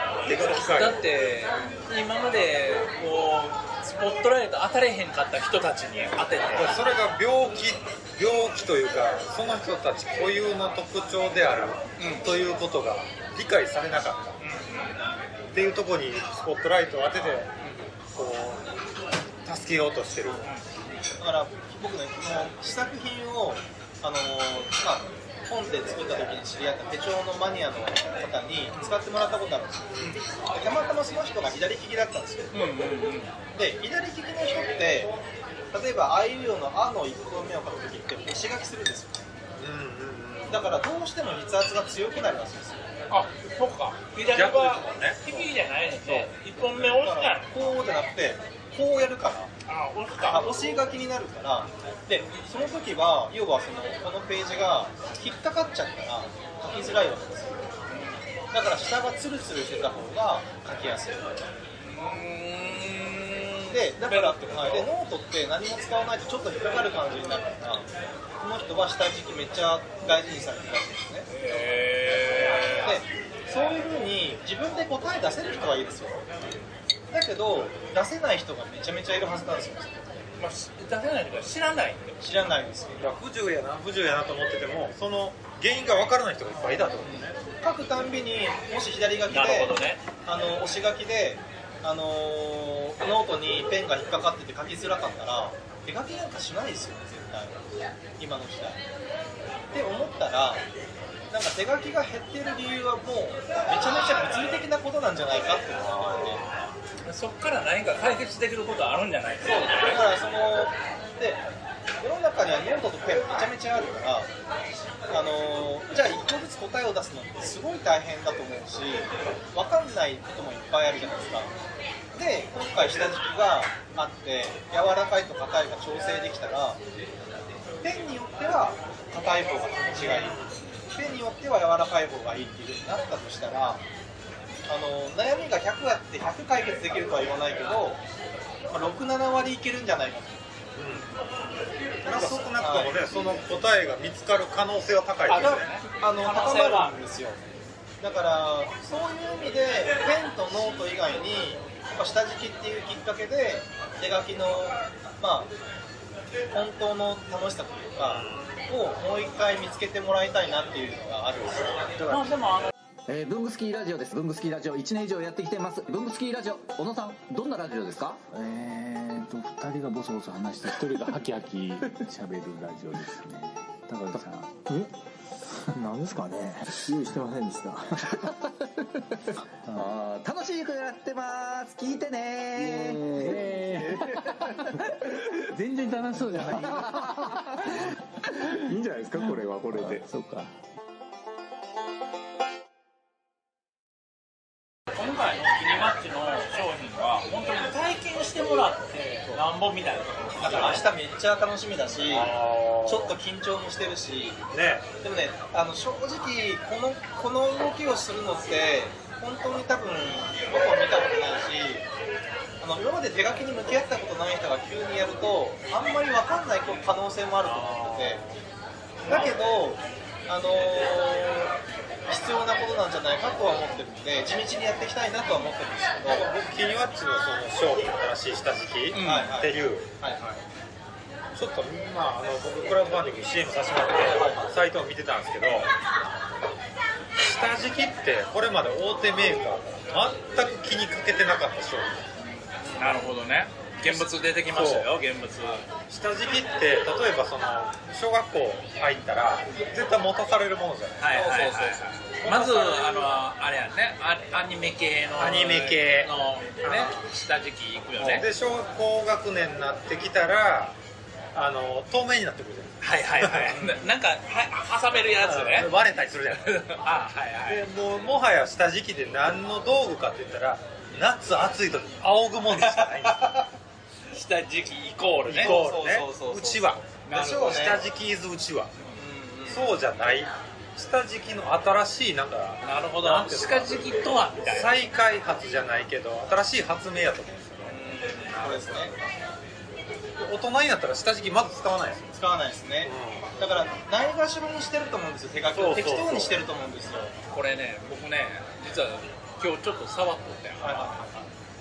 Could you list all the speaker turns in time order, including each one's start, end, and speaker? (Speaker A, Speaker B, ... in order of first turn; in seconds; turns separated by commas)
Speaker A: 0.2-1.0, Speaker B: 0.2-6.8, Speaker A: 6.5-14.4, Speaker B: 12.0-12.3, Speaker B: 14.4-15.0, Speaker A: 15.5-17.5, Speaker B: 17.3-17.8, Speaker A: 18.1-18.7, Speaker A: 19.4-20.4, Speaker C: 21.2-32.5, Speaker B: 32.5-33.3, Speaker C: 33.5-35.1, Speaker C: 35.7-39.3, Speaker A: 39.5-40.7, Speaker C: 40.5-42.9, Speaker B: 43.1-47.6, Speaker A: 44.2-45.5, Speaker C: 46.0-49.5, Speaker B: 49.7-50.6, Speaker C: 50.2-57.6, Speaker B: 57.9-58.2, Speaker C: 58.5-61.4, Speaker B: 61.8-64.9, Speaker C: 63.7-67.9, Speaker C: 68.4-71.3, Speaker B: 71.3-73.0, Speaker C: 72.6-76.3, Speaker C: 77.1-80.2, Speaker B: 80.4-82.3, Speaker C: 82.2-83.1, Speaker A: 83.0-87.4, Speaker B: 86.5-87.3, Speaker C: 87.6-97.6, Speaker B: 89.3-90.0, Speaker C: 98.2-98.8, Speaker C: 99.7-100.6, Speaker C: 101.3-106.4, Speaker A: 105.9-106.5, Speaker B: 107.0-110.0, Speaker C: 109.4-111.4, Speaker C: 112.0-114.3, Speaker C: 115.1-121.5, Speaker C: 122.1-126.8, Speaker C: 127.8-133.8, Speaker A: 129.9-130.6, Speaker C: 134.7-138.0, Speaker C: 138.7-140.5, Speaker A: 140.8-141.1, Speaker B: 140.9-141.2, Speaker A: 142.0-145.6, Speaker C: 142.0-143.0, Speaker B: 145.3-147.0, Speaker C: 145.3-147.4, Speaker C: 148.0-155.5, Speaker C: 156.5-161.8, Speaker A: 158.0-158.6, Speaker A: 161.9-162.3, Speaker B: 162.1-162.7, Speaker D: 163.1-168.2, Speaker E: 168.3-174.7, Speaker E: 175.7-178.3, Speaker E: 179.2-179.9, Speaker D: 179.7-184.6, Speaker E: 182.6-190.5, Speaker D: 186.1-187.7, Speaker D: 189.2-190.0, Speaker B: 194.9-200.8, Speaker C: 200.4-204.4, Speaker A: 201.9-203.1, Speaker A: 204.5-204.9, Speaker C: 205.0-211.8, Speaker C: 212.6-218.2, Speaker A: 217.4-218.3, Speaker A: 219.0-219.4, Speaker C: 219.0-221.6, Speaker C: 222.1-226.3, Speaker A: 226.0-229.9, Speaker B: 228.9-229.3, Speaker C: 229.0-230.4, Speaker A: 231.3-235.7, Speaker C: 234.0-234.5, Speaker A: 237.2-242.1, Speaker C: 242.6-243.1, Speaker B: 242.8-245.7, Speaker A: 243.8-244.9, Speaker A: 245.9-251.1, Speaker B: 251.0-258.3, Speaker C: 251.1-253.1, Speaker A: 255.2-256.1, Speaker A: 256.6-257.0, Speaker A: 258.0-260.8, Speaker A: 261.3-263.7, Speaker B: 262.8-265.7, Speaker C: 263.5-263.9, Speaker A: 265.1-266.8, Speaker B: 266.3-267.6, Speaker A: 267.5-273.4, Speaker C: 273.2-273.5, Speaker B: 274.1-275.7, Speaker A: 275.2-278.8, Speaker C: 275.3-277.8, Speaker B: 277.1-277.8, Speaker C: 278.9-279.7, Speaker A: 279.5-283.9, Speaker B: 282.6-284.7, Speaker A: 284.4-289.1, Speaker C: 287.7-288.9, Speaker A: 290.2-292.1, Speaker C: 292.1-297.1, Speaker A: 292.8-293.3, Speaker A: 295.5-296.4, Speaker B: 297.3-301.0, Speaker C: 300.6-301.3